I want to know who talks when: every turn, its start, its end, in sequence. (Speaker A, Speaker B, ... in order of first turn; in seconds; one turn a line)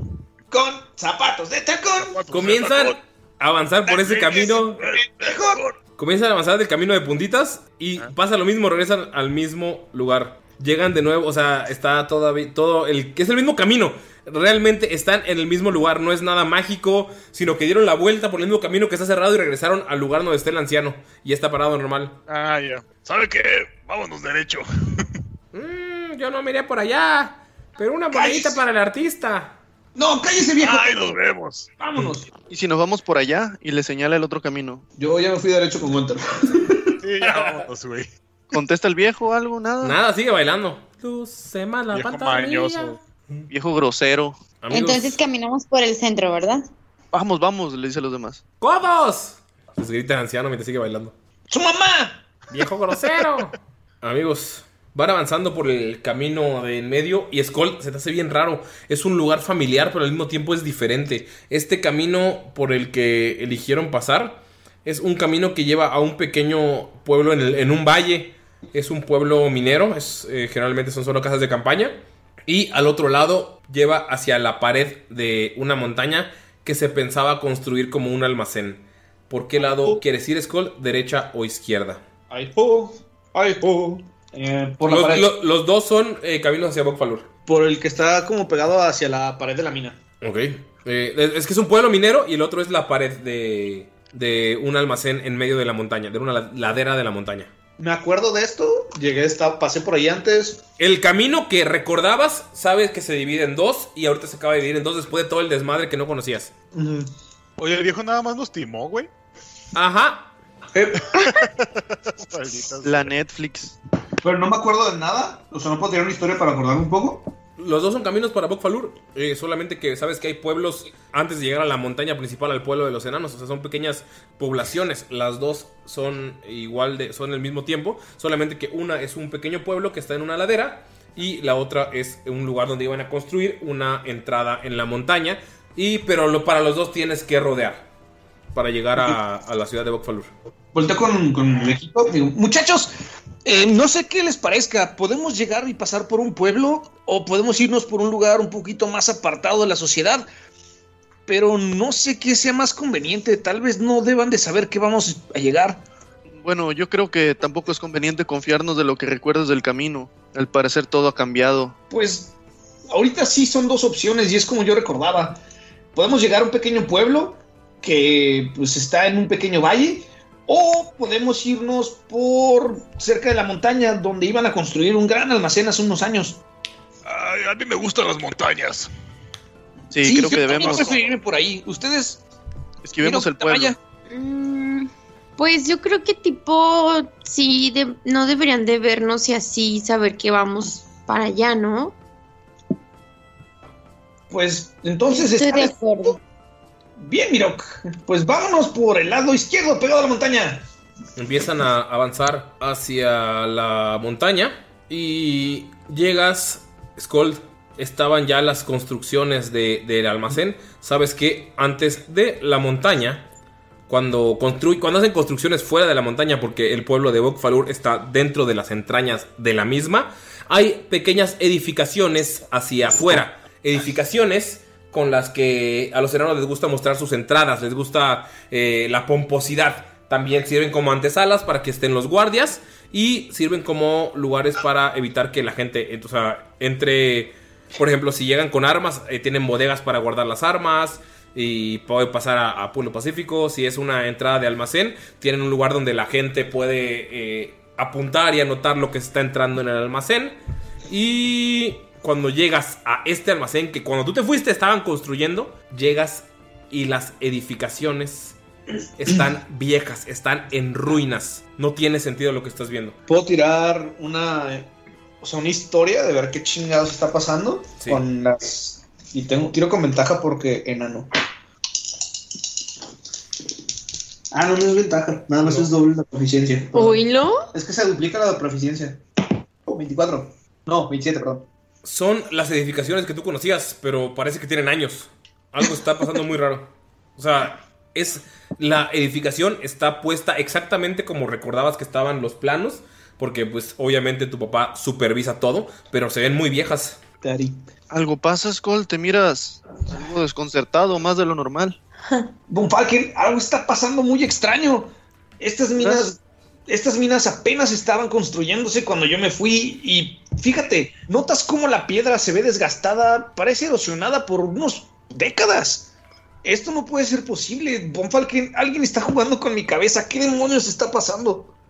Speaker A: 0.5-2.2
Speaker B: 2.0-3.0
Speaker C: 2.3-4.8
Speaker B: 3.9-5.8
Speaker A: 4.9-5.6
Speaker C: 6.0-22.2
Speaker B: 22.3-25.1
Speaker C: 25.5-29.6
Speaker A: 28.1-28.6
Speaker A: 29.9-31.2
Speaker B: 30.6-31.7
Speaker A: 31.8-32.3
Speaker D: 32.5-34.8
Speaker A: 35.0-36.9
Speaker E: 37.0-38.1
Speaker B: 37.2-37.6
Speaker D: 38.5-40.0
Speaker C: 39.8-43.4
Speaker E: 41.9-43.0
Speaker D: 43.5-44.4
Speaker C: 44.6-45.2
Speaker F: 44.7-46.6
Speaker D: 47.1-48.4
Speaker C: 48.6-51.1
Speaker A: 51.5-52.2
Speaker C: 52.5-82.0
Speaker A: 82.3-85.3
Speaker C: 84.8-87.3
Speaker A: 87.5-90.0
Speaker C: 90.2-97.5
Speaker A: 97.8-100.6
Speaker C: 100.8-106.5
Speaker A: 106.7-107.1
Speaker E: 107.6-109.1
Speaker C: 109.7-110.3
Speaker A: 110.7-111.4
Speaker E: 112.3-113.1
Speaker D: 112.8-113.7
Speaker A: 114.2-117.3
Speaker C: 117.6-137.8
Speaker C: 138.5-140.3
Speaker A: 140.7-142.9
Speaker A: 143.4-150.2
Speaker A: 151.3-155.8
Speaker D: 156.3-161.8
Speaker A: 161.9-162.3
Speaker A: 162.9-165.4
Speaker A: 165.9-176.4
Speaker B: 177.0-178.9
Speaker D: 179.9-181.0
Speaker A: 180.0-182.2
Speaker B: 180.5-181.0
Speaker D: 182.8-183.8
Speaker A: 183.0-183.8
Speaker G: 184.1-191.9
Speaker A: 194.3-196.1
Speaker F: 195.1-196.2
Speaker A: 197.0-200.6
Speaker C: 201.2-213.3
Speaker C: 213.9-250.4
Speaker C: 250.9-258.4
Speaker C: 259.0-262.9
Speaker A: 263.1-264.7
Speaker A: 265.2-271.1
Speaker A: 274.3-277.0
Speaker C: 275.4-275.7
Speaker G: 276.7-277.5
Speaker A: 277.5-279.0
Speaker A: 279.6-281.5
Speaker C: 281.8-297.0
Speaker A: 297.2-297.6
Speaker D: 297.9-301.8
Speaker A: 302.5-315.9
Speaker A: 316.4-321.5